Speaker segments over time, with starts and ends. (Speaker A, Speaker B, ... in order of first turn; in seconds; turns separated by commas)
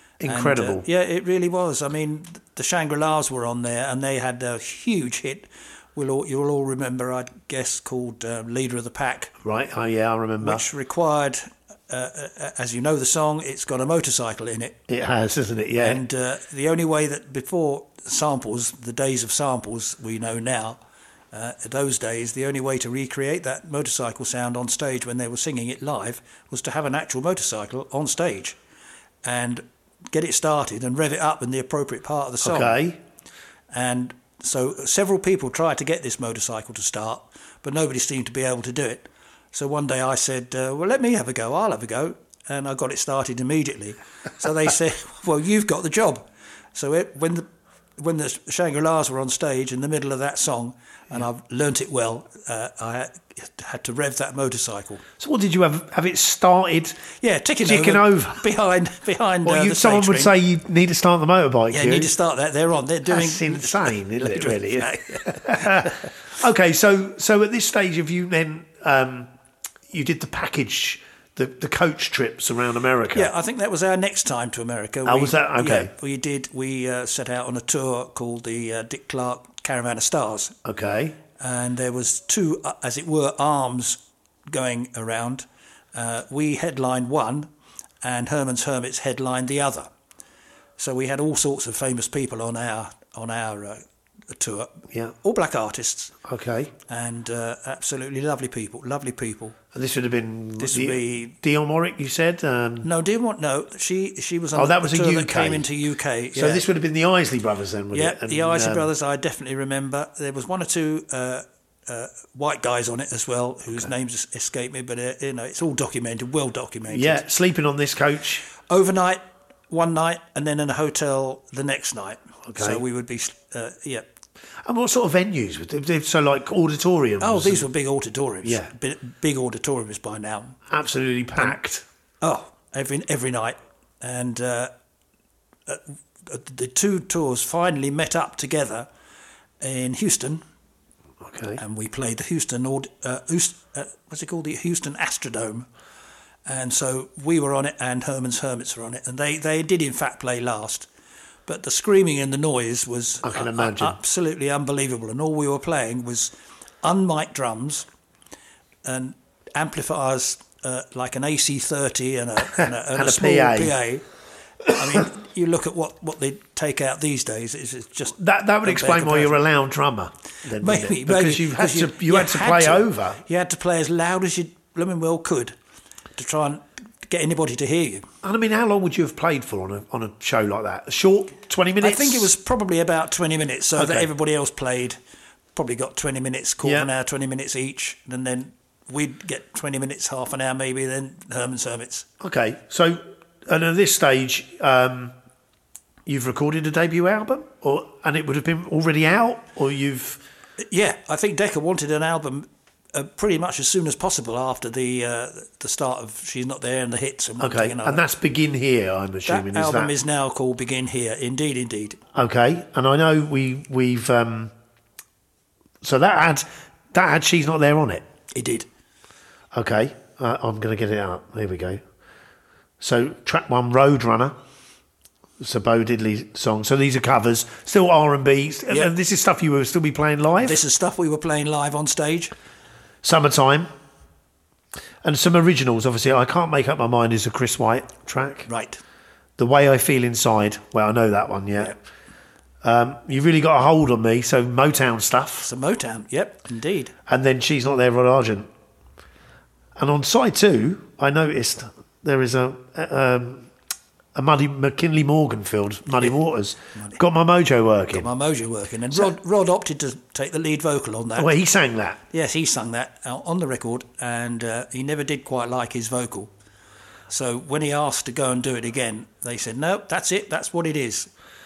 Speaker A: 0.2-0.8, Speaker B: 0.2-9.3, Speaker A: 9.4-10.6, Speaker B: 10.4-14.8, Speaker A: 14.9-16.0, Speaker B: 15.8-20.8, Speaker B: 21.3-28.6, Speaker B: 29.2-32.8, Speaker A: 32.4-33.0, Speaker B: 33.7-46.2, Speaker B: 46.7-47.5, Speaker B: 48.0-55.0, Speaker A: 55.2-57.0, Speaker B: 57.2-60.3, Speaker A: 57.6-58.5, Speaker A: 59.4-62.1, Speaker B: 61.7-66.1, Speaker A: 63.1-69.3, Speaker A: 69.9-73.3, Speaker B: 73.1-80.5, Speaker A: 75.0-75.9, Speaker A: 80.6-81.2, Speaker B: 81.4-87.5, Speaker B: 88.0-89.9, Speaker B: 90.8-96.2, Speaker A: 96.2-96.7, Speaker B: 96.9-99.5, Speaker A: 99.7-102.9, Speaker B: 100.6-101.3, Speaker B: 102.8-106.6, Speaker A: 104.5-105.7, Speaker A: 106.3-108.9, Speaker B: 107.9-117.2, Speaker A: 116.9-118.5, Speaker B: 118.7-124.0, Speaker A: 122.5-122.8, Speaker A: 124.6-127.7, Speaker B: 127.2-130.6, Speaker A: 128.4-128.7, Speaker A: 130.7-131.8, Speaker B: 132.2-134.7, Speaker B: 135.7-138.9, Speaker B: 139.6-140.4, Speaker A: 141.2-141.6, Speaker B: 141.6-145.7, Speaker B: 146.4-150.9, Speaker B: 151.4-156.3, Speaker A: 153.2-154.0, Speaker B: 156.8-157.8, Speaker B: 158.8-164.1, Speaker A: 162.6-163.7, Speaker B: 164.6-169.4, Speaker A: 168.2-173.2, Speaker B: 170.6-175.5, Speaker B: 176.2-178.1, Speaker A: 178.2-182.3, Speaker B: 181.8-184.9, Speaker A: 183.8-184.1, Speaker B: 185.5-192.1, Speaker A: 186.6-186.9, Speaker A: 192.2-195.1, Speaker A: 196.1-200.2, Speaker B: 200.6-208.0, Speaker A: 207.4-209.9, Speaker B: 209.2-212.0, Speaker A: 212.1-214.5, Speaker A: 215.8-218.0, Speaker B: 218.3-218.7, Speaker A: 219.5-221.8, Speaker A: 222.8-224.3, Speaker A: 225.4-230.6, Speaker B: 230.4-232.3, Speaker A: 233.0-233.7, Speaker A: 235.0-238.5, Speaker B: 238.5-238.8, Speaker A: 239.4-241.7, Speaker A: 242.6-245.5, Speaker B: 245.4-246.9, Speaker A: 247.1-248.5, Speaker A: 249.8-253.5, Speaker A: 254.1-258.1, Speaker B: 257.9-261.3, Speaker A: 261.1-262.0, Speaker B: 262.1-266.3, Speaker B: 267.1-271.1